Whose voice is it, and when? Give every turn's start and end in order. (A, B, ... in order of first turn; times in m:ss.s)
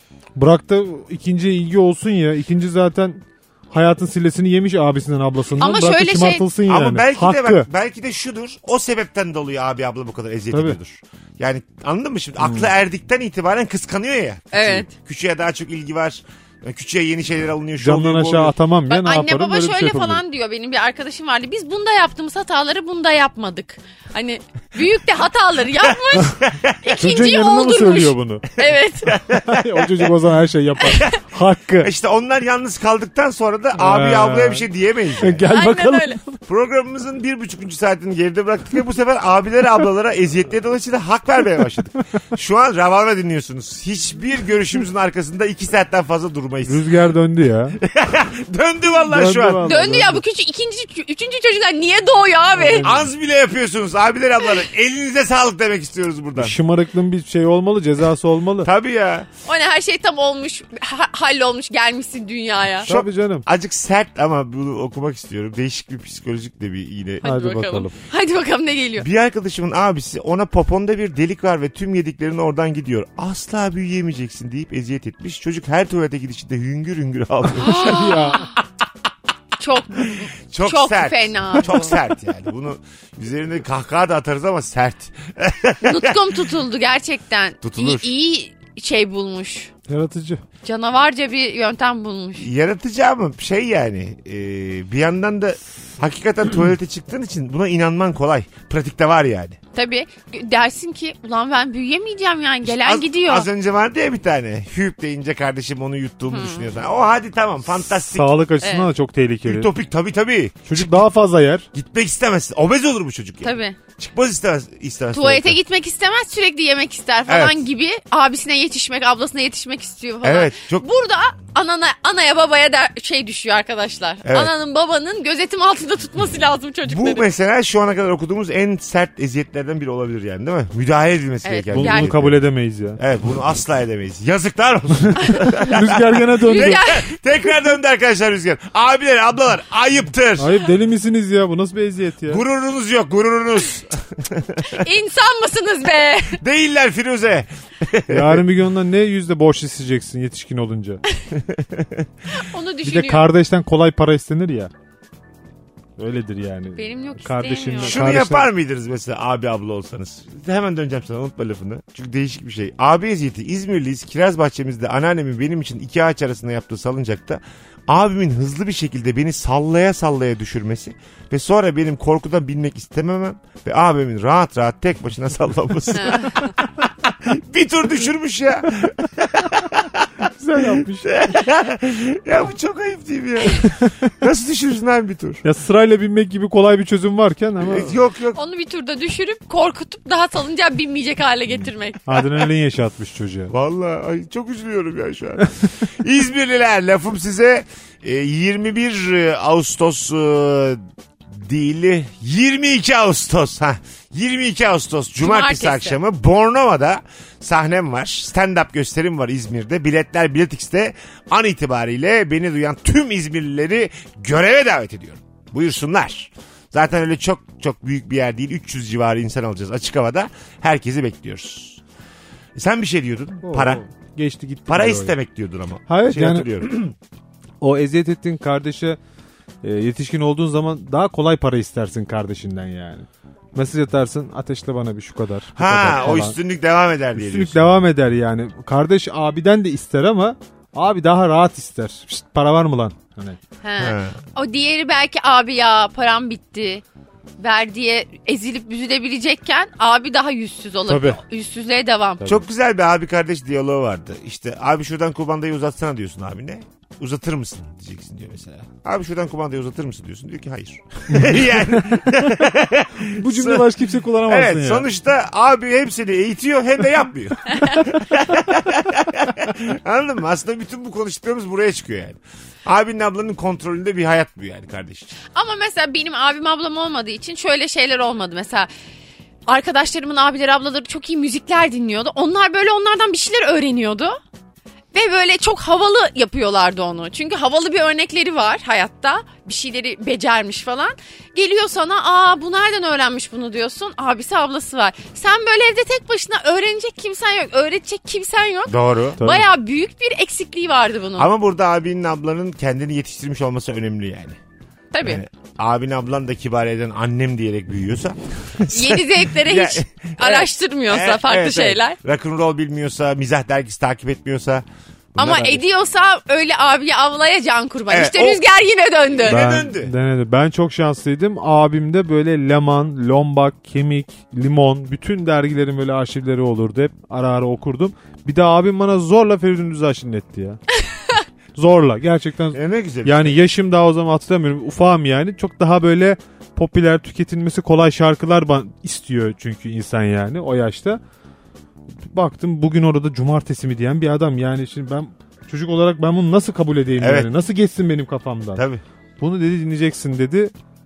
0:00.4-0:07.7 A
0:05.6-0:06.5 B
0:06.6-0:18.6 C
0:10.5-0:10.8 A
0:12.4-0:12.7 A
0:14.5-0:14.9 B
0:17.8-0:20.2 A
0:18.9-0:29.2 B
0:25.8-0:27.0 C
0:27.0-0:28.5 A
0:29.0-0:30.1 C
0:29.4-0:31.9 A
0:30.9-0:31.2 C
0:31.8-0:35.4 C
0:33.8-0:34.7 A
0:35.2-0:36.2 A
0:35.5-0:36.2 B
0:36.5-0:46.8 C
0:46.7-0:47.8 A
0:47.8-0:49.8 C
0:49.0-0:50.2 A
0:49.6-0:53.0 B
0:52.6-0:53.1 A
0:52.8-0:56.6 C
0:56.4-0:58.7 A
0:58.6-0:59.3 C
0:59.5-1:02.9 B
1:02.9-1:03.4 A
1:02.9-1:07.3 C
1:07.2-1:09.1 B
1:07.2-1:08.0 A
1:09.0-1:18.4 C
1:17.6-1:18.5 B
1:17.6-1:18.5 A
1:19.6-1:21.9 B
1:20.5-1:26.5 C
1:25.8-1:29.7 B
1:27.6-1:28.1 C
1:29.9-1:30.4 A
1:30.6-1:32.5 B
1:32.4-1:39.6 C
1:39.7-1:43.5 B
1:42.7-1:48.4 C
1:46.3-1:46.6 B
1:48.1-1:49.7 A
1:48.6-1:48.9 B
1:49.4-1:51.0 C
1:50.7-1:51.7 A
1:51.7-1:55.6 C
1:53.4-1:53.8 B
1:55.1-2:07.3 B
1:57.3-1:57.6 C
2:00.2-2:00.9 C
2:04.2-2:04.5 C
2:06.9-2:12.4 C
2:11.4-2:12.1 B
2:11.7-2:13.0 A
2:13.0-2:20.5 C
2:15.3-2:16.8 A
2:16.4-2:17.2 B
2:20.4-2:22.4 A
2:22.3-2:24.8 C
2:24.7-2:26.4 B
2:26.4-2:28.4 C
2:28.1-2:31.0 A
2:31.3-2:32.1 C
2:32.3-2:33.3 B
2:32.8-2:34.7 A
2:36.0-2:38.5 A
2:36.8-2:38.0 B
2:37.8-3:05.4 C
2:56.0-2:56.5 B
3:00.2-3:01.3 A
3:05.4-3:08.0 A
3:07.6-3:08.4 C
3:08.4-3:12.1 B
3:12.1-3:13.5 A
3:13.5-3:41.8 C
3:25.2-3:26.0 B
3:42.6-3:43.8 C
3:43.4-3:45.1 A
3:44.7-3:46.9 C
3:45.9-3:46.7 A
3:47.6-3:49.0 A
3:49.6-3:56.4 A
3:55.6-3:57.6 C
3:57.2-4:03.4 A
4:03.6-4:06.8 B
4:03.8-4:04.2 C
4:07.4-4:12.4 B
4:10.9-4:11.2 A
4:12.2-4:23.7 C
4:21.2-4:22.1 A
4:23.0-4:24.9 A
4:24.3-4:35.2 C
4:35.4-4:38.7 B
4:39.5-4:44.2 B
4:44.9-5:01.3 B
4:58.7-4:59.2 C
4:59.2-4:59.5 A
5:01.2-5:04.4 C
5:04.9-5:05.2 B
5:05.0-5:14.6 C
5:08.7-5:12.0 B
5:15.2-5:15.6 C
5:15.2-5:19.4 B
5:17.9-5:18.4 C
5:19.2-5:19.9 C
5:19.3-5:30.6 A
5:31.6-5:41.0 A
5:32.5-5:33.3 C
5:42.0-5:48.6 A
5:47.0-5:47.3 C
5:48.6-5:48.8 C
5:49.2-5:50.5 A